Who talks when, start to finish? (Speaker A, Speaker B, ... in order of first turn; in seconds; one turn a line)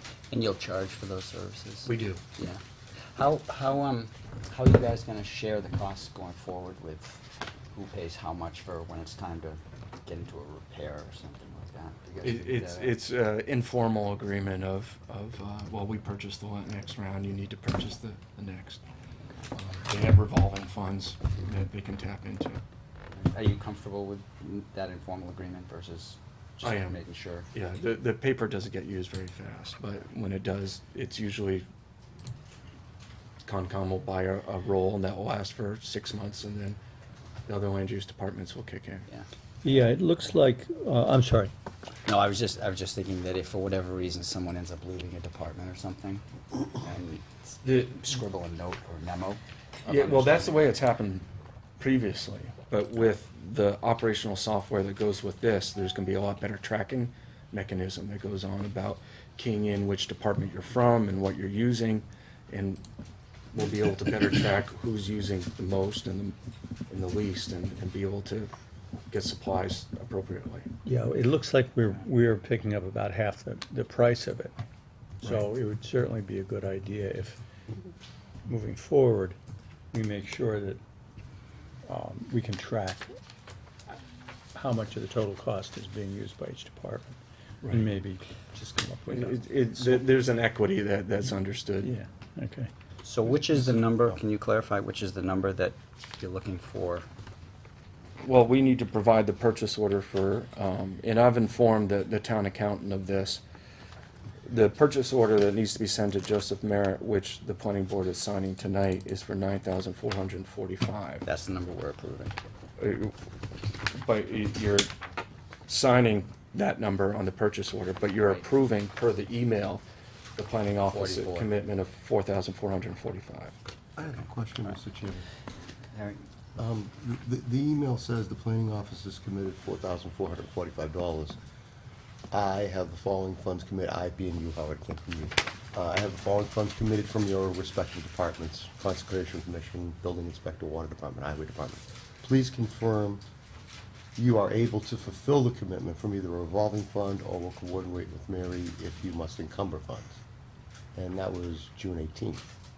Speaker A: 0.3-2.6
Speaker B: 1.9-2.2
Speaker A: 3.1-13.0
Speaker B: 12.2-18.8
Speaker B: 19.5-22.6
Speaker A: 23.1-27.5
Speaker B: 26.6-27.0
Speaker B: 27.5-31.6
Speaker B: 33.4-36.8
Speaker B: 37.5-39.1
Speaker C: 39.6-41.5
Speaker A: 42.0-50.7
Speaker B: 47.6-48.2
Speaker B: 49.9-51.2
Speaker B: 51.8-62.8
Speaker B: 63.5-66.3
Speaker B: 66.9-68.5
Speaker B: 69.1-70.7
Speaker C: 70.8-74.5
Speaker C: 75.2-77.4
Speaker C: 78.5-79.4
Speaker C: 79.9-80.8
Speaker C: 81.8-83.1
Speaker C: 84.5-89.3
Speaker B: 89.1-91.9
Speaker C: 91.8-92.7
Speaker A: 93.0-97.1
Speaker B: 98.2-103.4
Speaker B: 104.4-111.2
Speaker A: 111.2-112.3
Speaker B: 112.8-113.1
Speaker B: 113.9-114.9
Speaker B: 115.7-119.8
Speaker A: 118.2-118.5
Speaker B: 120.4-123.5
Speaker A: 120.9-121.5
Speaker D: 124.0-125.3
Speaker A: 125.9-126.2
Speaker D: 126.6-131.4
Speaker D: 132.3-143.2
Speaker D: 144.2-150.2
Speaker D: 150.9-152.5